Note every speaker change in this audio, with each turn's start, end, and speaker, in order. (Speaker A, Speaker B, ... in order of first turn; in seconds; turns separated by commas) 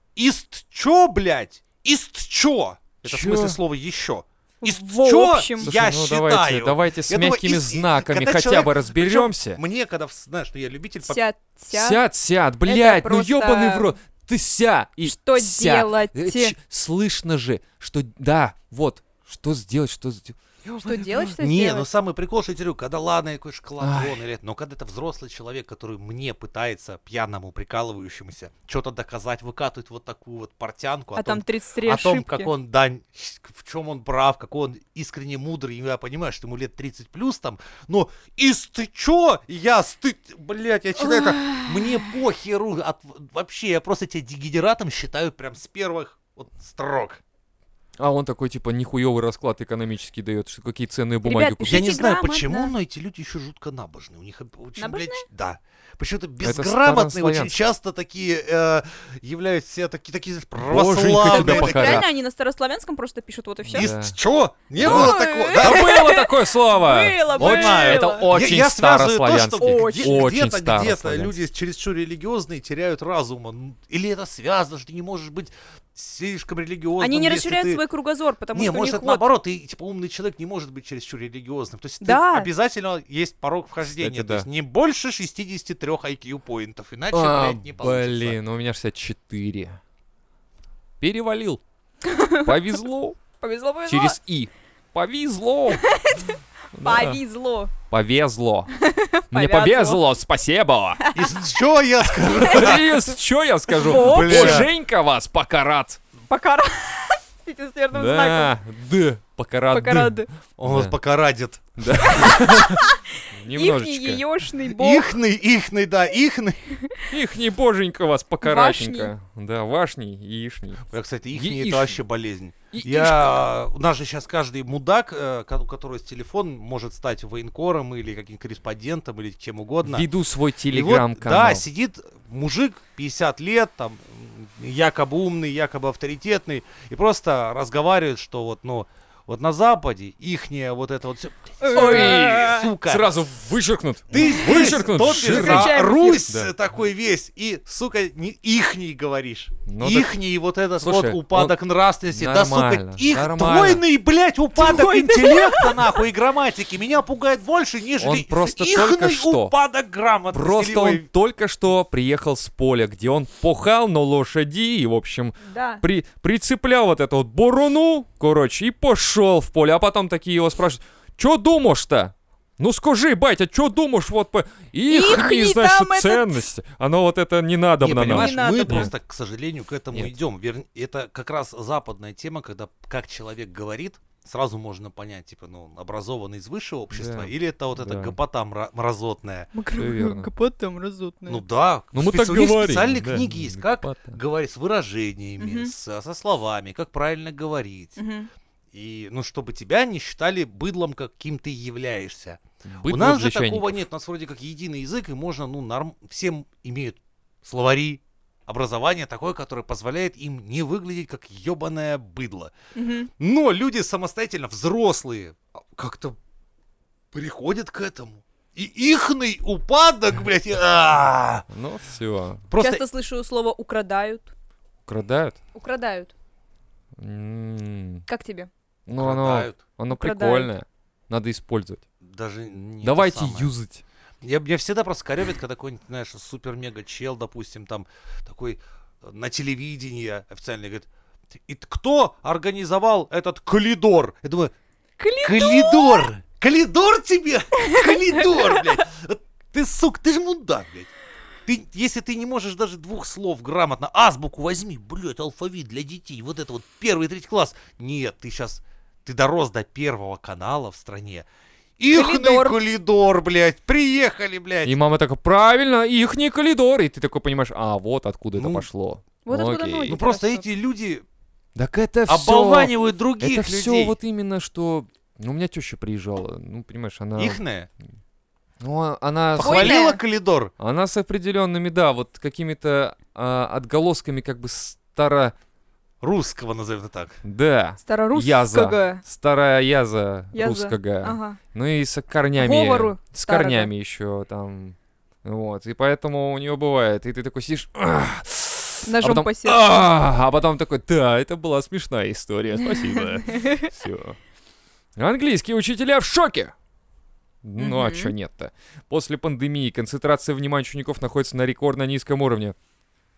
Speaker A: 0.1-11.2, Speaker B: 3.0-3.6, Speaker C: 4.6-5.7, Speaker B: 5.6-9.6, Speaker C: 11.0-12.0, Speaker B: 11.7-21.4, Speaker C: 12.7-13.9, Speaker C: 15.0-16.6, Speaker C: 20.8-21.9, Speaker A: 21.4-47.2, Speaker B: 23.8-24.2, Speaker C: 31.1-32.5, Speaker C: 41.0-42.1, Speaker B: 48.0-51.9, Speaker C: 51.2-52.7, Speaker A: 51.6-62.0, Speaker C: 54.8-55.2, Speaker B: 56.4-57.5, Speaker B: 60.6-62.0, Speaker C: 61.2-63.9, Speaker B: 63.7-64.2, Speaker A: 63.7-66.0, Speaker C: 64.8-68.4, Speaker B: 64.8-71.4, Speaker A: 67.4-77.8, Speaker C: 69.6-70.3, Speaker C: 77.0-79.3, Speaker A: 78.5-88.4, Speaker C: 82.0-82.5, Speaker B: 83.8-84.5, Speaker B: 87.1-89.8, Speaker B: 91.0-91.6, Speaker C: 92.0-92.5, Speaker B: 92.3-93.2, Speaker C: 93.4-94.2, Speaker B: 93.9-96.0, Speaker C: 95.8-97.7, Speaker B: 96.7-97.2, Speaker B: 97.9-98.7, Speaker C: 98.7-100.0, Speaker B: 99.3-101.0, Speaker A: 101.1-103.0, Speaker B: 102.3-106.0, Speaker C: 102.4-102.8, Speaker C: 103.7-104.7, Speaker A: 103.8-104.7, Speaker C: 106.3-108.5, Speaker B: 107.9-111.0, Speaker C: 109.7-110.3, Speaker A: 110.6-112.3, Speaker B: 111.8-114.2, Speaker C: 112.0-115.1, Speaker A: 114.7-116.6, Speaker C: 116.8-117.0, Speaker B: 117.1-122.0, Speaker C: 118.4-119.1, Speaker A: 120.9-130.1, Speaker B: 122.7-123.5, Speaker B: 129.8-131.6, Speaker A: 130.7-143.1, Speaker C: 141.6-142.7, Speaker B: 141.7-145.8, Speaker A: 144.1-161.1, Speaker C: 144.1-146.3, Speaker B: 146.3-146.5, Speaker B: 149.7-150.1, Speaker B: 150.8-151.6, Speaker B: 152.1-153.8, Speaker C: 154.6-155.9, Speaker B: 158.0-159.5, Speaker B: 160.3-178.9, Speaker C: 165.4-165.8, Speaker C: 174.9-176.3, Speaker A: 177.8-189.5, Speaker C: 178.0-178.9, Speaker B: 186.9-188.2, Speaker C: 189.5-191.4, Speaker B: 189.8-190.3, Speaker A: 191.3-198.0, Speaker B: 191.9-194.2, Speaker C: 195.4-195.7, Speaker C: 197.9-198.3, Speaker A: 198.7-212.5, Speaker B: 202.6-203.8, Speaker C: 212.7-213.1, Speaker A: 213.2-216.2, Speaker A: 217.1-221.4, Speaker B: 221.5-222.4, Speaker A: 222.5-222.8, Speaker C: 222.6-224.3, Speaker B: 224.9-225.4, Speaker C: 225.6-226.1, Speaker B: 227.0-228.1, Speaker C: 228.1-228.5, Speaker B: 228.9-231.8, Speaker A: 228.9-229.6, Speaker C: 229.9-230.5, Speaker A: 232.0-233.5, Speaker B: 232.8-233.8, Speaker A: 234.2-240.9, Speaker A: 241.5-244.5, Speaker C: 245.0-246.1, Speaker A: 245.2-250.9, Speaker C: 247.6-248.8, Speaker A: 251.5-261.3, Speaker A: 261.8-264.8, Speaker C: 261.9-262.6, Speaker B: 264.6-270.0, Speaker A: 268.4-268.6, Speaker C: 269.2-270.4, Speaker A: 269.9-271.0, Speaker B: 271.6-277.4, Speaker A: 272.1-273.9, Speaker A: 277.1-277.7, Speaker B: 278.6-279.8, Speaker A: 279.4-280.5, Speaker C: 279.4-280.0, Speaker B: 280.6-285.3, Speaker A: 286.0-287.2, Speaker B: 287.2-304.2, Speaker C: 287.8-289.0, Speaker C: 290.3-291.4, Speaker C: 292.4-293.7, Speaker C: 298.8-299.6, Speaker C: 302.6-303.6, Speaker B: 304.9-306.5, Speaker B: 307.4-312.6, Speaker C: 307.6-308.1